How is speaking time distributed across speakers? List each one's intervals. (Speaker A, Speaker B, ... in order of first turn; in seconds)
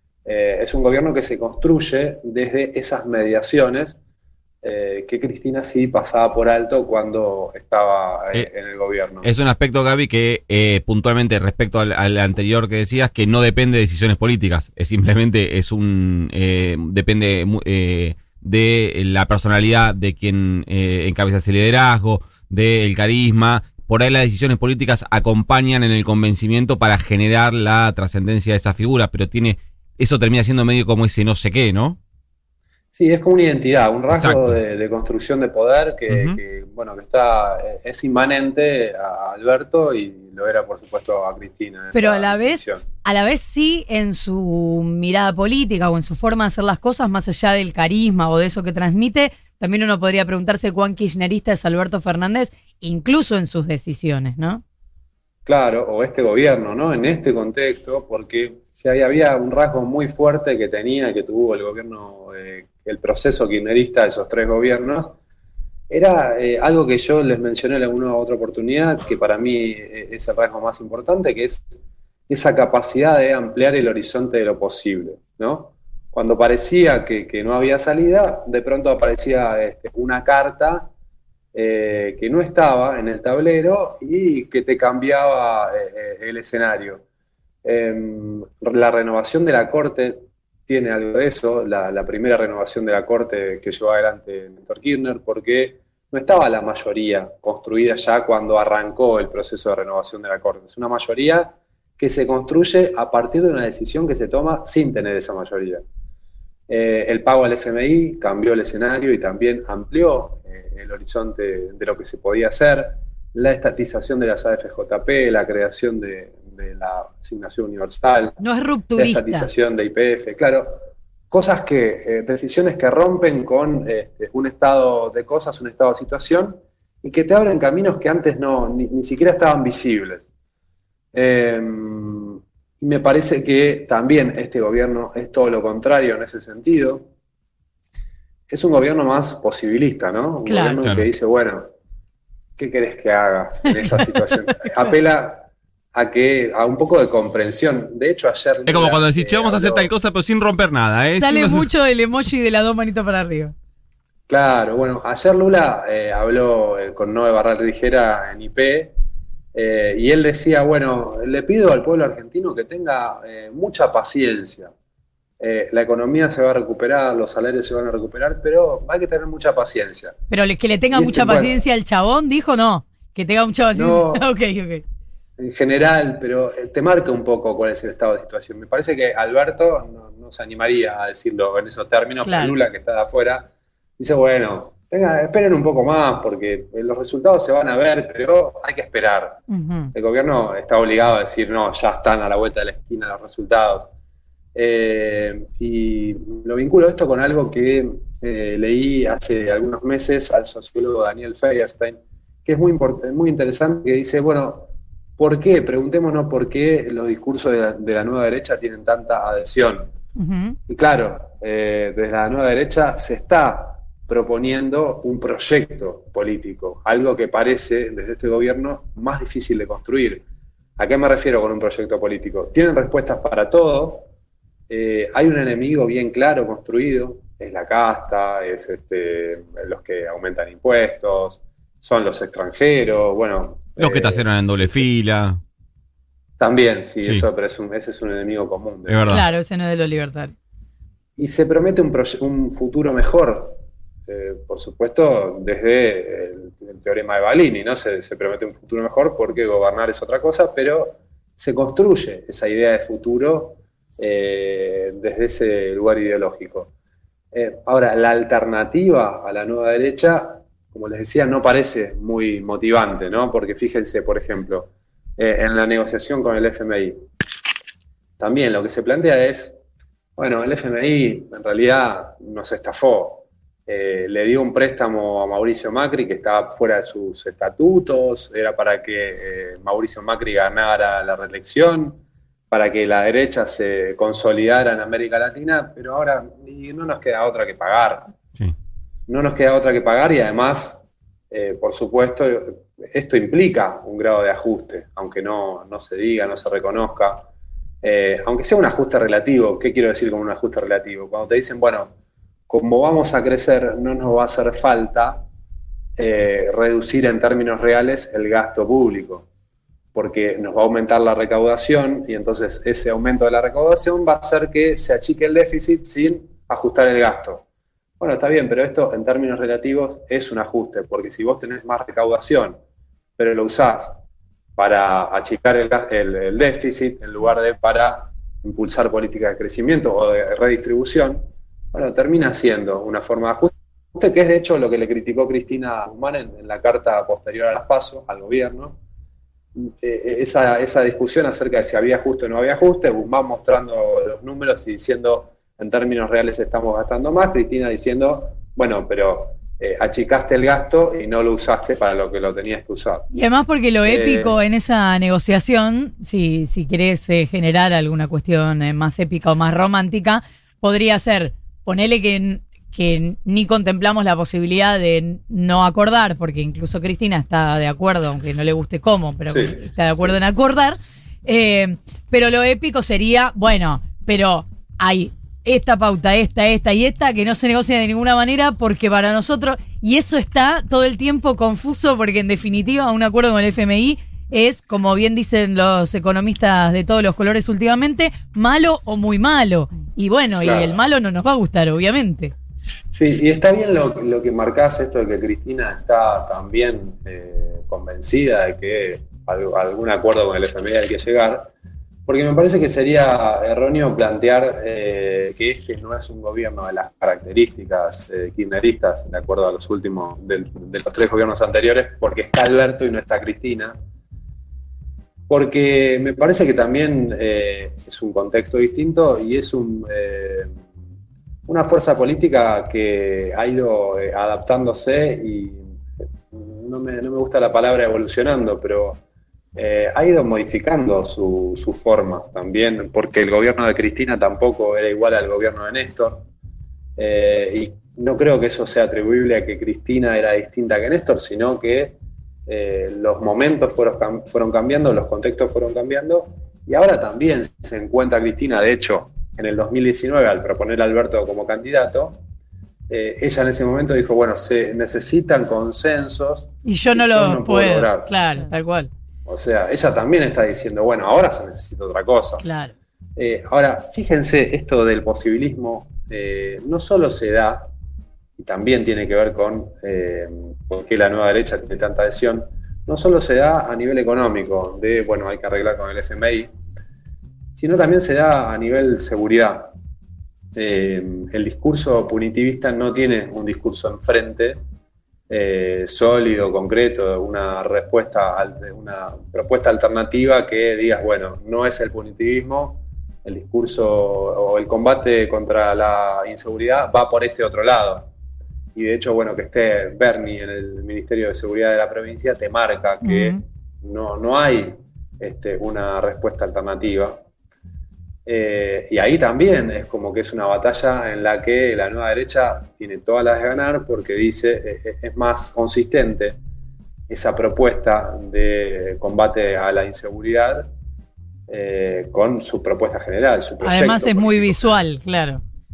Speaker A: 0.2-4.0, 4.6-9.3, 32.9-42.9, 55.5-65.2, 65.9-80.9, 81.5-87.0, 87.6-105.8, 106.7-118.4, 119.0-130.3, 131.1-137.1, 138.5-141.7, 142.6-149.9, 154.3-158.9, 159.6-164.7, 165.4-170.1, 170.9-171.6, 173.7-174.3, 175.4-193.9, 194.5-209.9, 210.7-220.2, 220.8-224.1, 224.7-234.9, 236.4-239.1, 241.2-256.7, 257.3-267.0, 268.2-269.6, 270.2-282.0, 282.5-288.1, 289.1-297.3, 297.8-301.9, 302.5-305.2, 306.0-309.3, 309.9-317.5, 318.0-322.6, 323.2-324.0, 324.6-331.2, 331.7-338.8, 339.6-353.1, 353.9-354.4, 369.3-370.2, 390.4-390.8, 392.9-401.5, 402.1-413.8, 415.3-420.5, 421.5-425.7, 426.3-429.0, 429.6-436.3, 437.0-452.2, 452.9-458.1, 459.3-462.5, 463.2-467.7, 468.4-476.5, 477.6-479.7, 480.5-484.6, 485.3-498.1, 498.8-507.2, 508.3-516.4, 517.1-520.7, 521.5-524.8
Speaker B: 9.2-32.0, 34.1-34.6, 36.1-36.4, 148.7-151.7, 233.8-235.4, 238.9-239.3
Speaker C: 41.9-54.6, 118.4-119.5, 140.4-140.8, 143.7-144.9, 151.2-153.5, 170.3-174.8, 182.2-182.6, 189.5-189.9, 210.2-210.6, 239.1-240.3, 353.1-392.3, 456.6-458.9, 462.4-462.7, 503.0-503.4, 523.6-525.4